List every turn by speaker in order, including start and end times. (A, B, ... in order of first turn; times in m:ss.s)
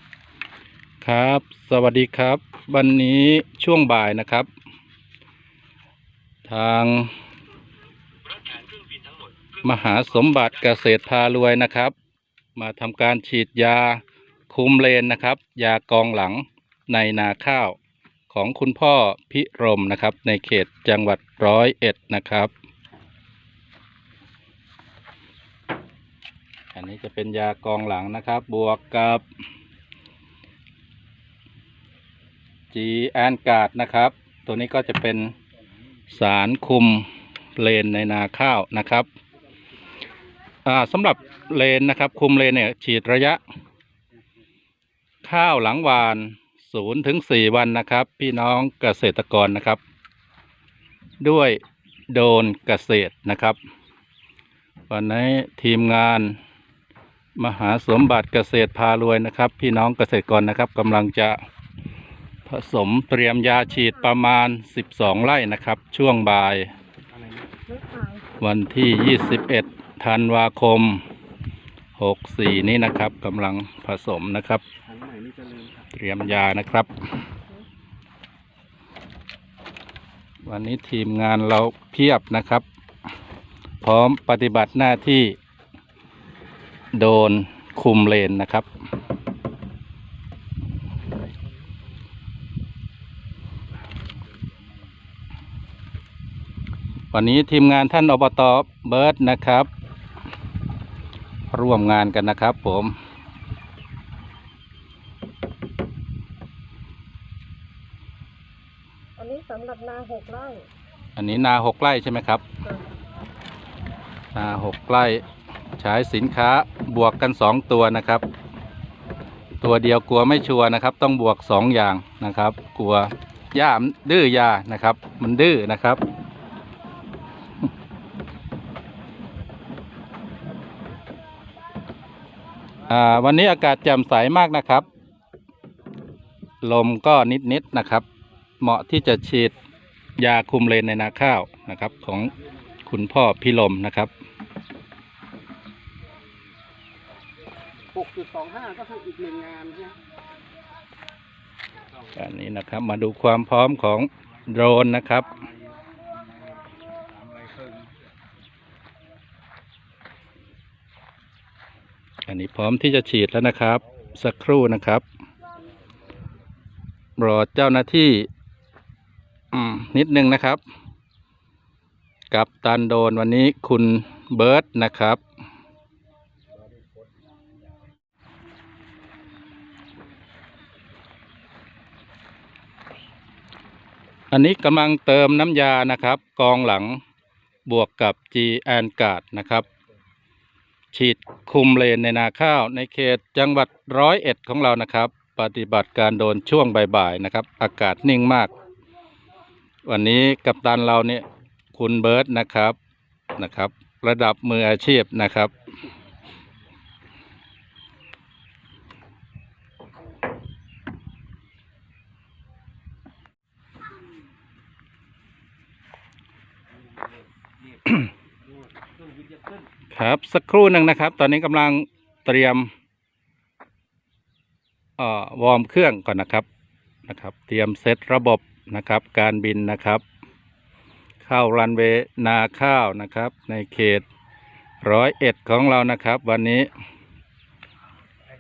0:01.0-0:04.5 A
0:06.4-0:07.1 A
0:09.6-0:11.9 A
0:12.6-0:17.8 A
0:18.3-0:22.5 A
0:26.7-0:29.2 A
0:32.7-0:35.4 A
0:36.1-0:39.1 A
0:40.6-0:43.4 A
0:45.2-0:49.8 A
0:51.2-0:51.6 A
0:52.1-0:53.6 A
0:54.9-0:56.4 A
0:57.4-1:01.4 A
1:02.5-1:06.7 A
1:07.1-1:07.6 B
1:07.7-1:08.2 C
1:08.4-1:11.0 A
1:12.0-1:14.6 A
1:14.9-1:15.9 B
1:15.9-1:17.2 A
1:20.5-1:22.6 A
1:23.8-1:25.4 A
1:26.9-1:28.7 A
1:37.1-1:39.7 A
1:41.5-1:43.0 A
1:49.2-1:50.7 C
1:51.2-1:52.4 A
1:54.3-1:55.2 A
1:55.8-1:58.2 A
1:59.6-2:06.0 A
2:12.9-2:14.9 A
2:16.6-2:18.1 A
2:18.6-2:19.5 A
2:20.2-2:22.3 A
2:22.9-2:24.1 A
2:27.9-2:30.0 B
2:32.1-2:35.4 A
2:37.2-2:37.8 B
2:42.3-2:45.0 A
2:47.2-2:48.3 A
2:49.5-2:50.6 A
2:52.3-2:55.2 A
3:04.3-3:07.0 A
3:07.7-3:09.7 A
3:10.9-3:18.5 A
3:19.8-3:22.8 A
3:23.4-3:25.5 A
3:39.3-3:39.6 B
3:39.9-3:42.7 A
3:45.0-3:46.5 A
3:47.0-3:50.0 A
3:51.2-3:54.1 A
3:54.8-3:56.7 A